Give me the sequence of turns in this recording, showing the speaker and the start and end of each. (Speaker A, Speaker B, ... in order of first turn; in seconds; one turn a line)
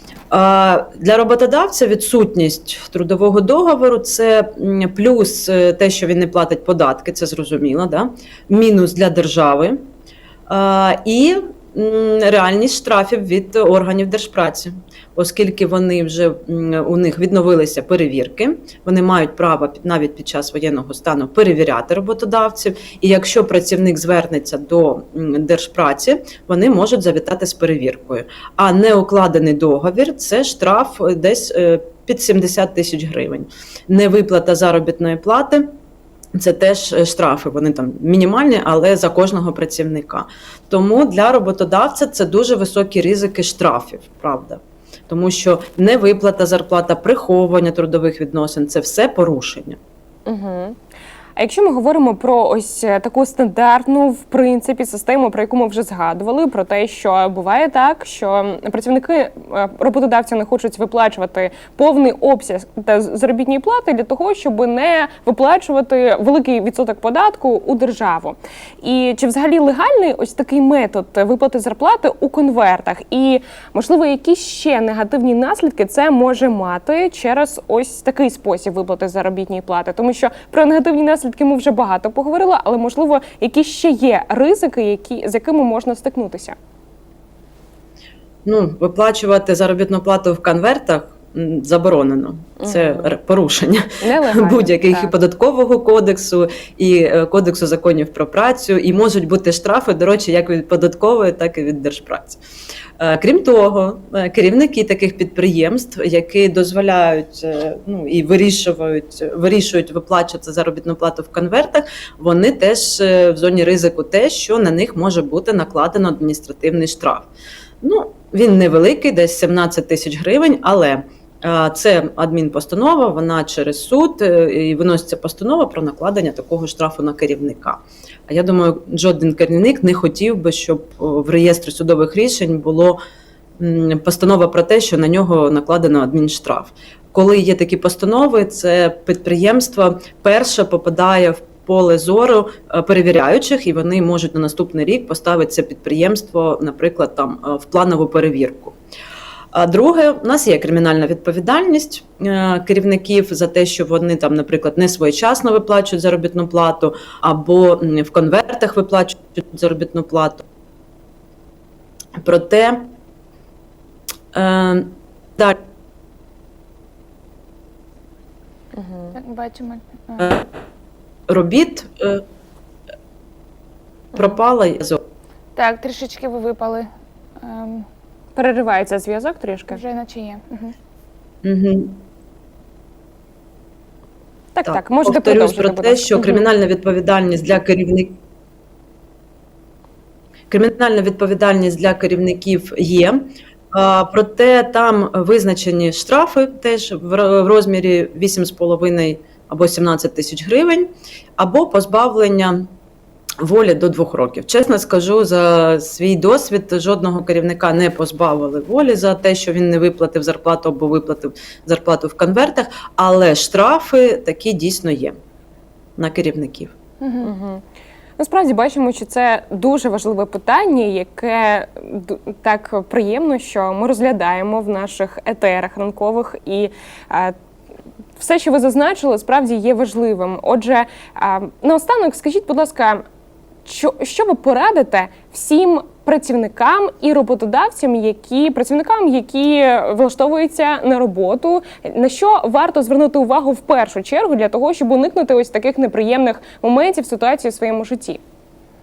Speaker A: 0.3-9.8
Speaker A: 10.5-35.7
Speaker A: 36.4-49.8
Speaker B: 50.3-50.8
Speaker B: 51.4-86.6
Speaker A: 88.5-102.4
Speaker B: 92.6-93.1
Speaker B: 94.0-95.2
Speaker A: 103.0-117.3
Speaker A: 117.8-133.0
Speaker A: 133.6-148.8
Speaker A: 149.5-160.4
Speaker A: 162.2-162.9
Speaker A: 164.3-165.6
Speaker B: 168.7-169.2
Speaker C: 169.2-170.4
Speaker A: 171.3-172.2
Speaker A: 174.2-175.0
Speaker C: 175.6-176.9
Speaker C: 177.4-177.8
Speaker B: 178.4-179.8
Speaker C: 179.7-180.8
Speaker A: 181.4-182.0
Speaker B: 184.6-186.5
Speaker A: 184.7-188.1
Speaker A: 190.5-202.7
Speaker A: 203.4-215.2
Speaker A: 216.0-216.8
Speaker C: 217.0-217.3
Speaker B: 217.2-217.6
Speaker B: 218.2-227.4
Speaker B: 228.2-233.0
Speaker B: 233.7-248.2